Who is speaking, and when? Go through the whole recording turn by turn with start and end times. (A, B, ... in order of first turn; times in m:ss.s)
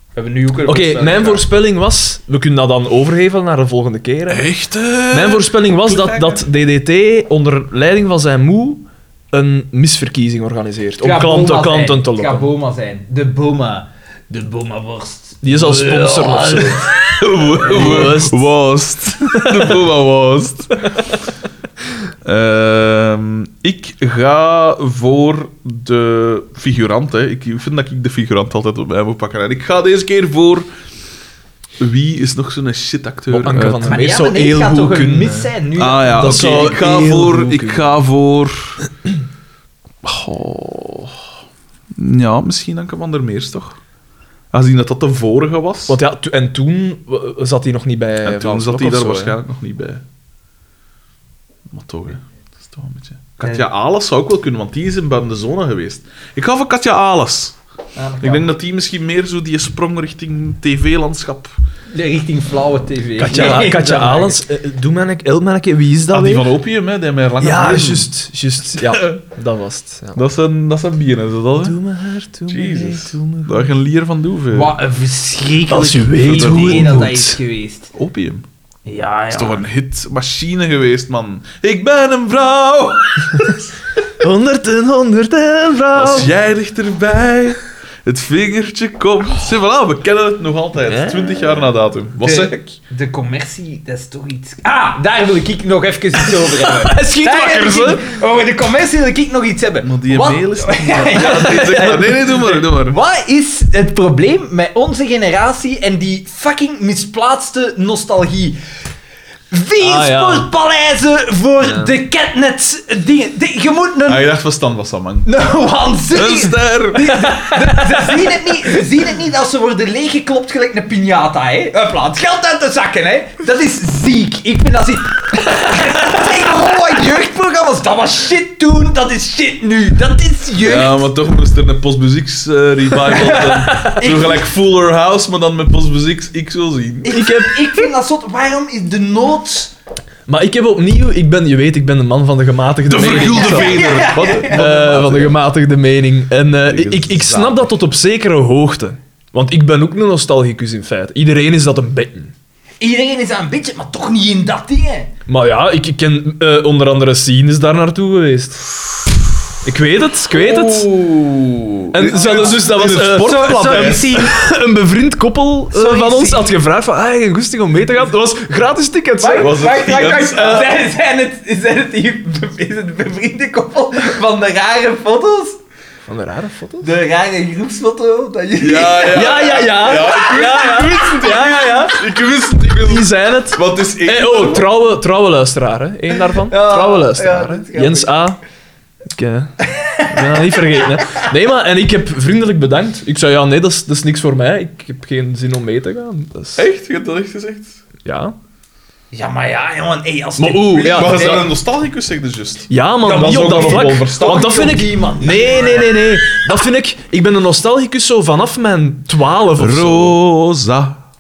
0:00.2-0:01.5 A
0:00.7-0:04.5 B
0:04.3-0:05.5 C
0:05.1-0:12.5 B
0:05.8-0:06.4 A
0:11.0-0:18.1 A
0:15.4-0:16.9 B
0:17.1-0:20.9 C
0:17.6-0:18.5 B
0:19.4-0:19.6 B
0:22.2-0:30.7 C
0:31.8-0:33.9 C
0:33.3-0:35.5 B
0:33.8-0:36.8 A
0:35.8-0:38.8 C
0:36.2-0:37.9 B
0:40.0-0:41.2 C
0:42.0-0:43.8 C
0:44.5-0:46.0 C
0:45.9-0:49.4 B
0:48.2-0:50.0 C
0:51.7-0:57.6 C
0:58.0-0:58.5 A
0:58.2-1:01.5 C
1:01.9-1:04.4 A
1:03.2-1:06.5 B
1:06.1-1:08.1 C
1:07.4-1:10.2 B
1:08.8-1:09.2 C
1:10.2-1:11.8 C
1:11.6-1:13.7 B
1:12.5-1:14.8 C
1:14.5-1:17.9 A
1:15.7-1:17.4 B
1:16.2-1:17.1 C
1:17.9-1:18.4 C
1:18.9-1:19.7 A
1:19.3-1:23.6 C
1:24.2-1:26.3 B
1:25.9-1:32.8 C
1:30.8-1:31.6 B
1:32.2-1:48.6 A
1:36.3-1:38.1 B
1:39.8-1:43.0 C
1:41.2-1:42.0 B
1:49.5-1:54.3 A
1:49.8-1:50.5 B
1:51.6-1:51.9 B
1:54.1-1:55.3 C
1:55.3-2:11.1 A
1:56.1-1:57.4 C
2:10.6-2:17.2 C
2:13.0-2:14.5 A
2:13.7-2:14.0 B
2:17.0-2:19.7 A
2:17.1-2:17.8 B
2:20.3-2:32.3 B
2:22.9-2:25.4 C
2:23.0-2:24.7 A
2:26.6-2:27.7 C
2:32.8-2:35.1 A
2:35.3-2:38.7 B
2:39.6-2:40.9 B
2:40.3-2:44.2 C
2:41.9-2:49.6 B
2:42.1-2:44.4 A
2:45.7-2:46.6 A
2:49.2-2:55.6 A
2:49.4-2:50.7 C
2:56.1-2:56.9 B
2:56.8-3:01.7 A
2:58.6-3:04.8 C
2:59.1-3:02.0 B
3:02.8-3:08.4 B
3:06.3-3:08.2 A
3:09.1-3:16.6 B
3:09.7-3:11.1 A
3:16.6-3:17.8 C
3:18.0-3:18.4 B
3:19.1-3:21.5 A
3:20.4-3:21.4 B
3:20.8-3:24.6 C
3:22.7-3:30.2 B
3:23.0-3:26.4 A
3:29.6-3:31.0 C